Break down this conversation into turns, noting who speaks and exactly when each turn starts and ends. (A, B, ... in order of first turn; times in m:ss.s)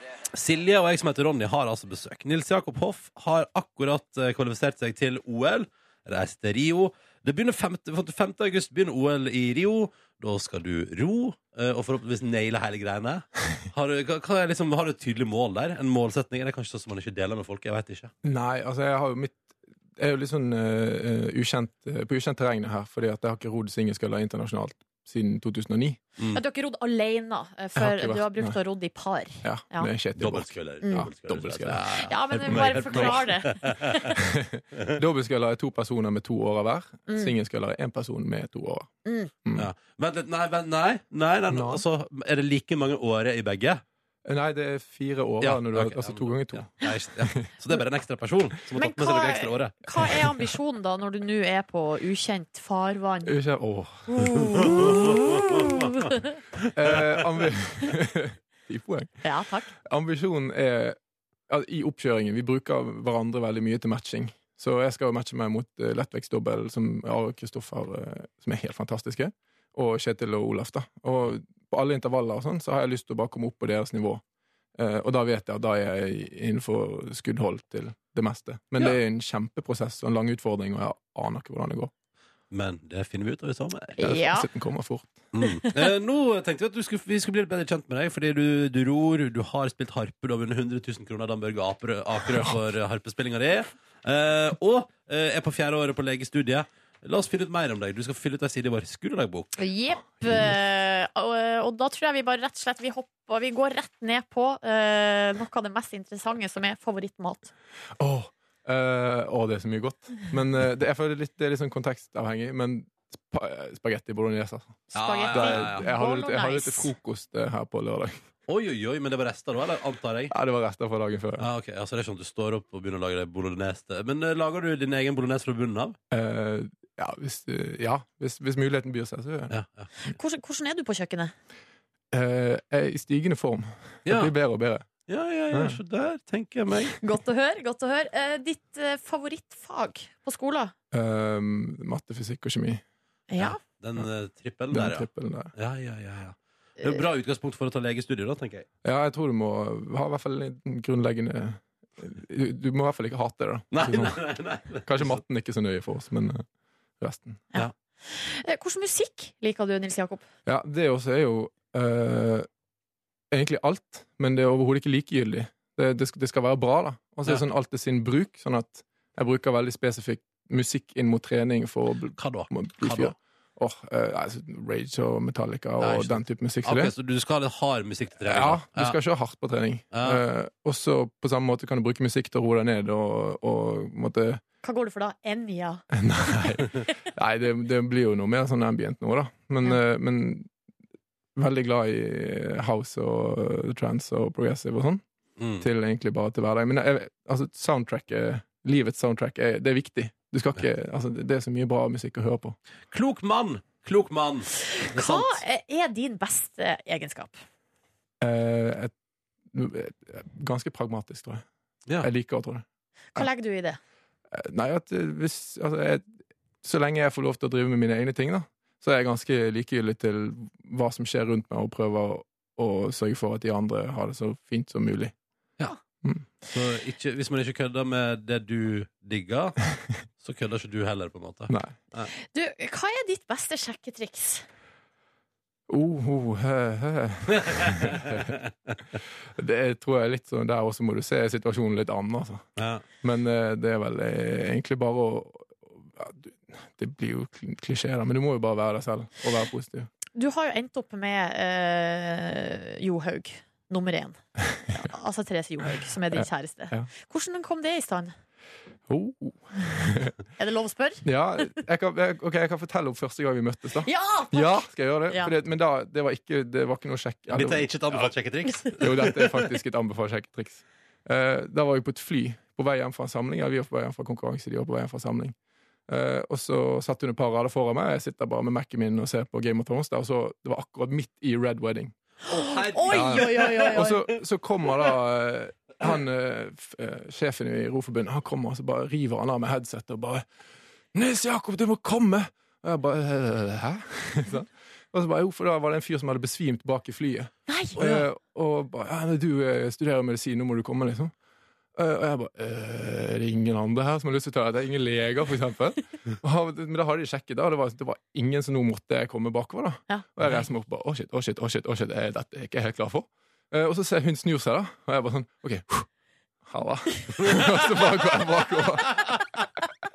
0:00.3-0:18.1 A
0:18.2-0:26.0 B
0:26.3-0:29.9 C
0:27.8-0:28.6 B
0:29.4-0:33.2 B
0:30.2-0:34.1 A
0:30.8-0:31.1 C
0:32.0-0:34.1 C
0:34.1-0:38.9 B
0:37.1-0:37.3 C
0:39.0-0:39.3 C
0:39.6-0:43.8 A
0:41.5-0:41.8 B
0:44.2-0:46.7 B
0:45.4-0:49.8 A
0:47.2-0:47.5 B
0:48.8-0:53.4 C
0:53.2-0:55.5 B
0:54.1-0:56.2 C
0:54.7-0:55.2 A
0:56.7-0:59.1 B
0:56.9-0:57.1 A
0:59.2-0:59.7 C
0:59.8-1:01.0 B
1:01.5-1:14.2 B
1:14.8-1:21.9 B
1:22.5-1:24.0 A
1:24.0-1:24.5 C
1:24.0-1:25.3 B
1:25.3-1:39.5 A
1:39.6-1:47.5 C
1:40.2-1:40.5 B
1:48.0-1:58.1 B
1:54.9-1:56.9 C
1:54.9-1:55.9 A
1:58.5-2:00.3 A
2:00.3-2:01.5 B
2:01.4-2:06.0 A
2:06.1-2:09.5 B
2:09.5-2:09.9 A
2:10.0-2:11.3 C
2:12.1-2:14.9 B
2:14.0-2:14.3 A
2:15.1-2:17.0 A
2:15.5-2:15.8 B
2:17.0-2:20.7 C
2:20.9-2:22.8 B
2:23.3-2:23.6 C
2:23.4-2:28.7 A
2:24.7-2:25.5 B
2:28.8-2:34.2 B
2:33.7-2:35.2 A
2:34.8-2:36.4 B
2:37.0-2:37.5 B
2:37.5-2:40.2 C
2:40.4-2:42.5 B
2:43.3-2:56.9 B
2:52.2-2:53.1 A
2:55.8-2:59.0 A
2:58.2-3:04.4 B
2:59.9-3:00.2 A
3:04.6-3:06.6 C
3:05.9-3:10.5 B
3:11.4-3:15.0 B
3:15.4-3:15.6 A
3:15.6-3:22.6 B
3:22.9-3:25.4 A
3:24.7-3:27.4 C
3:28.2-3:28.9 B
3:29.5-3:31.4 B
3:32.0-3:32.6 B
3:33.1-3:33.8 C
3:34.3-3:36.1 B
3:36.6-3:45.2 B
3:46.5-3:49.6 A
3:50.2-3:52.1 A
3:51.5-3:51.8 B
3:52.3-3:54.4 C
3:55.7-3:58.4 B
3:57.4-3:58.8 A
3:59.4-4:02.4 B
4:02.6-4:02.8 A
4:03.0-4:09.9 B
4:10.1-4:18.1 C
4:14.6-4:14.9 B
4:15.6-4:16.9 B
4:18.9-4:20.2 B
4:20.4-4:21.0 C
4:21.0-4:28.1 B
4:23.8-4:25.3 C
4:27.3-4:29.3 A
4:28.8-4:35.3 B
4:35.9-4:41.9 B
4:42.3-4:43.9 A
4:42.3-4:44.0 C
4:42.9-4:50.2 B
4:50.9-5:01.1 B
4:57.5-4:57.8 C
5:01.8-5:15.9 B
5:16.4-5:19.0 B
5:17.3-5:18.0 A
5:18.8-5:19.4 A